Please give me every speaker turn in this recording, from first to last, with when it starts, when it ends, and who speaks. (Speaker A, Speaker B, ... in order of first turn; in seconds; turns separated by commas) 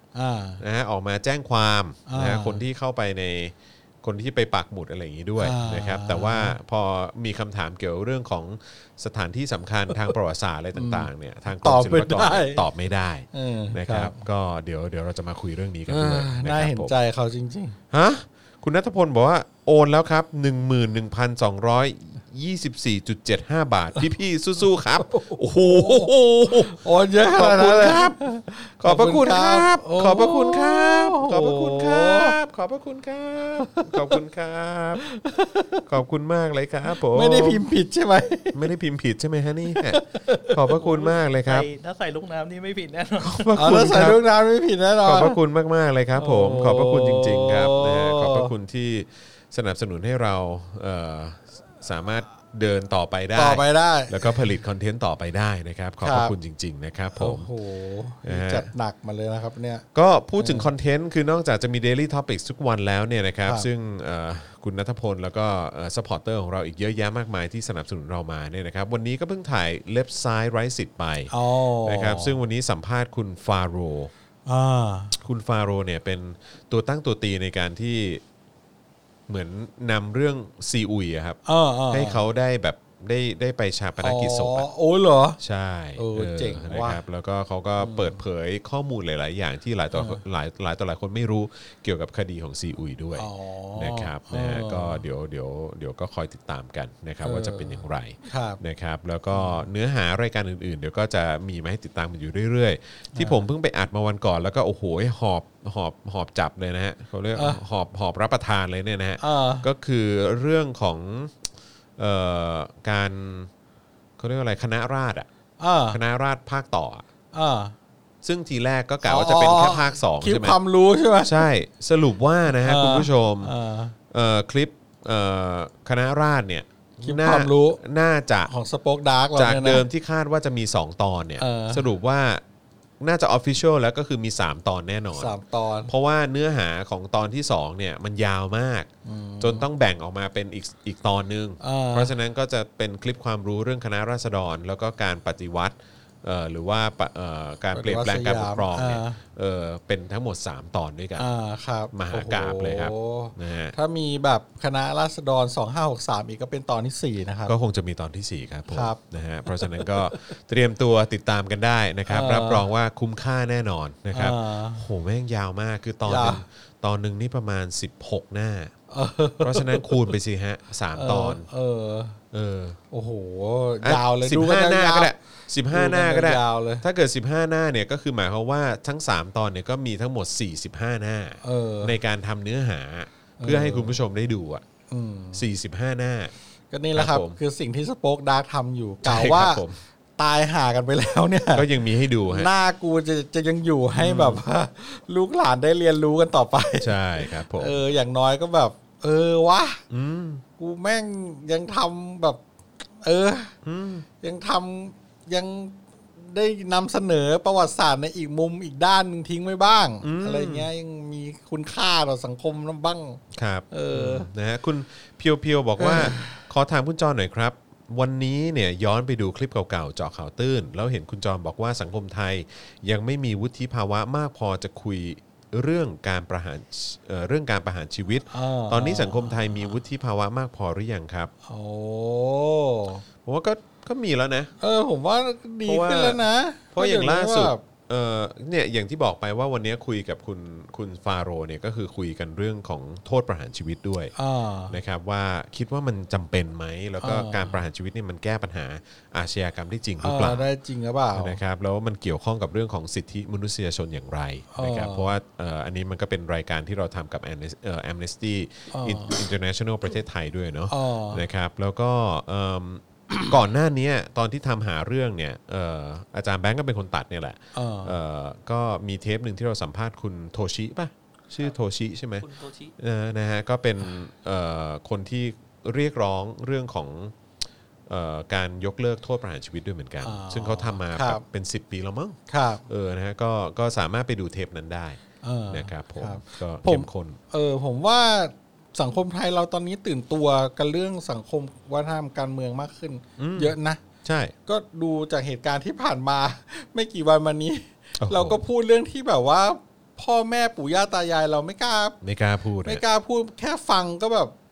Speaker A: 0.1-0.6, Speaker B: 0.6-16.9, Speaker A: 2.1-2.6, Speaker A: 5.4-6.5, Speaker A: 10.8-12.7, Speaker A: 13.3-14.2, Speaker A: 15.9-17.8, Speaker B: 17.9-28.2, Speaker A: 25.1-32.4, Speaker B: 28.8-35.1, Speaker A: 33.7-34.1, Speaker A: 35.0-35.9, Speaker B: 35.9-37.6, Speaker A: 37.0-38.6, Speaker B: 38.5-41.6, Speaker A: 39.7-40.6, Speaker C: 40.7-43.5, Speaker B: 43.2-44.2, Speaker A: 43.5-45.4, Speaker B: 45.0-57.5, Speaker A: 46.1-48.5, Speaker A: 53.4-54.4, Speaker A: 56.0-56.3, Speaker A: 57.1-59.8, Speaker B: 58.2-58.7, Speaker B: 59.9-74.1, Speaker A: 60.4-60.7, Speaker A: 71.3-72.4, Speaker A: 74.5-75.1, Speaker B: 75.2-78.2, Speaker B: 79.3-81.4, Speaker A: 81.4-82.2, Speaker B: 81.9-84.7, Speaker A: 84.0-85.4, Speaker B: 85.4-111.4, Speaker A: 86.0-87.0, Speaker A: 87.8-88.2, Speaker A: 89.9-90.2, Speaker A: 93.2-95.0, Speaker A: 97.2-98.6, Speaker A: 99.3-99.7, Speaker A: 103.1-103.4, Speaker A: 107.3-107.6, Speaker A: 109.2-109.7, Speaker B: 112.0-113.5, Speaker B: 114.2-115.3, Speaker A: 115.6-116.0, Speaker B: 115.9-117.0, Speaker A: 117.3-117.8, Speaker B: 118.2-120.6, Speaker A: 119.0-121.4, Speaker B: 121.2-123.5, Speaker A: 122.5-123.9, Speaker B: 124.1-128.5, Speaker A: 127.0-127.8, Speaker A: 128.5-129.8, Speaker B: 129.4-132.4, Speaker A: 131.4-131.8, Speaker B: 133.0-135.4, Speaker A: 135.2-135.9, Speaker B: 135.9-138.9, Speaker A: 139.0-139.7, Speaker B: 139.4-151.2, Speaker A: 141.6-142.1, Speaker A: 147.7-149.2, Speaker A: 151.2-157.5, Speaker B: 151.9-153.8, Speaker B: 157.4-168.7, Speaker A: 158.7-160.1, Speaker A: 162.1-162.7, Speaker A: 164.1-164.8, Speaker A: 166.1-166.4, Speaker A: 168.9-170.1, Speaker B: 169.4-171.4, Speaker A: 170.9-172.2, Speaker B: 172.3-172.8, Speaker A: 172.9-175.1, Speaker B: 173.8-184.6, Speaker A: 175.7-176.8, Speaker A: 181.4-181.9, Speaker A: 183.4-184.0, Speaker A: 184.9-185.4, Speaker B: 185.3-186.3, Speaker A: 186.7-189.6, Speaker B: 186.9-187.4, Speaker B: 189.0-189.8, Speaker A: 190.2-191.7, Speaker B: 191.5-192.5, Speaker A: 192.2-199.8, Speaker B: 194.0-194.4, Speaker B: 196.8-197.8, Speaker B: 199.9-200.4, Speaker A: 200.6-202.4, Speaker A: 203.0-203.5, Speaker B: 203.6-204.1, Speaker A: 204.2-214.3, Speaker B: 210.0-210.7, Speaker B: 213.3-231.3, Speaker A: 215.8-216.4, Speaker A: 228.3-229.6, Speaker A: 231.4-233.0, Speaker B: 233.2-234.5, Speaker A: 234.6-237.6, Speaker B: 235.6-236.2, Speaker B: 236.7-244.1, Speaker A: 244.2-244.8, Speaker B: 244.7-250.4, Speaker A: 247.0-247.6, Speaker A: 250.0-251.4, Speaker B: 251.1-272.2, Speaker A: 254.5-255.1, Speaker A: 258.7-259.2, Speaker A: 260.7-261.2, Speaker A: 267.5-267.9, Speaker C: 272.2-272.7, Speaker B: 272.8-277.1, Speaker B: 277.9-287.2, Speaker A: 280.0-281.2, Speaker A: 282.3-282.6, Speaker A: 285.2-293.8, Speaker B: 293.2-294.3, Speaker A: 294.4-302.0, Speaker B: 298.0-298.4, Speaker B: 302.0-302.8, Speaker A: 302.6-304.3